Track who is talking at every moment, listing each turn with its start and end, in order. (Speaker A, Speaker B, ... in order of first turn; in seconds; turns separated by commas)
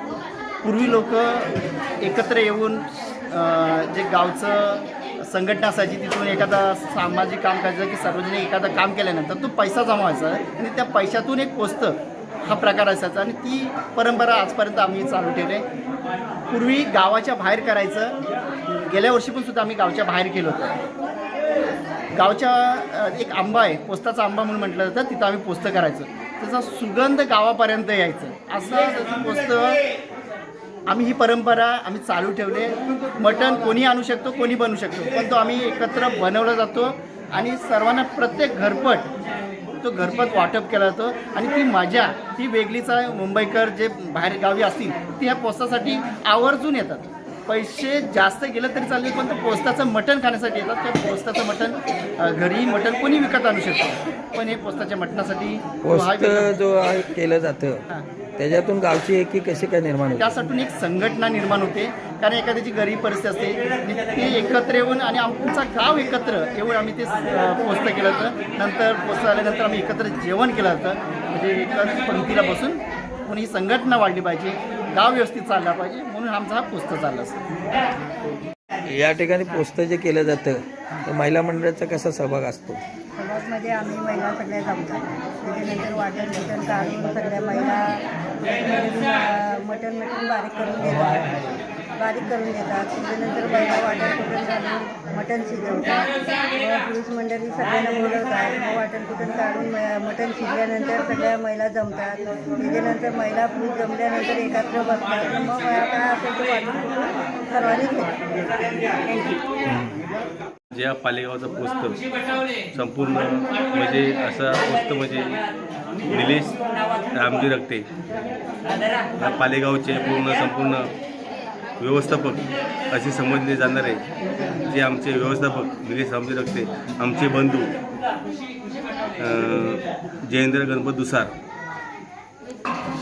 Speaker A: 0.6-15.6, Speaker A: 16.5-18.1, Speaker A: 18.7-20.8, Speaker A: 22.1-29.8, Speaker A: 30.9-39.1, Speaker A: 39.8-56.5, Speaker B: 55.8-57.8, Speaker B: 58.4-60.3, Speaker A: 60.2-77.4, Speaker B: 78.9-82.8, Speaker C: 83.2-91.4, Speaker C: 92.0-108.2, Speaker C: 109.0-109.4, Speaker D: 110.7-112.0, Speaker D: 112.7-115.4, Speaker D: 116.1-116.5, Speaker D: 117.1-117.9, Speaker D: 119.2-120.9, Speaker D: 121.8-124.0, Speaker D: 124.7-127.7, Speaker D: 129.2-131.3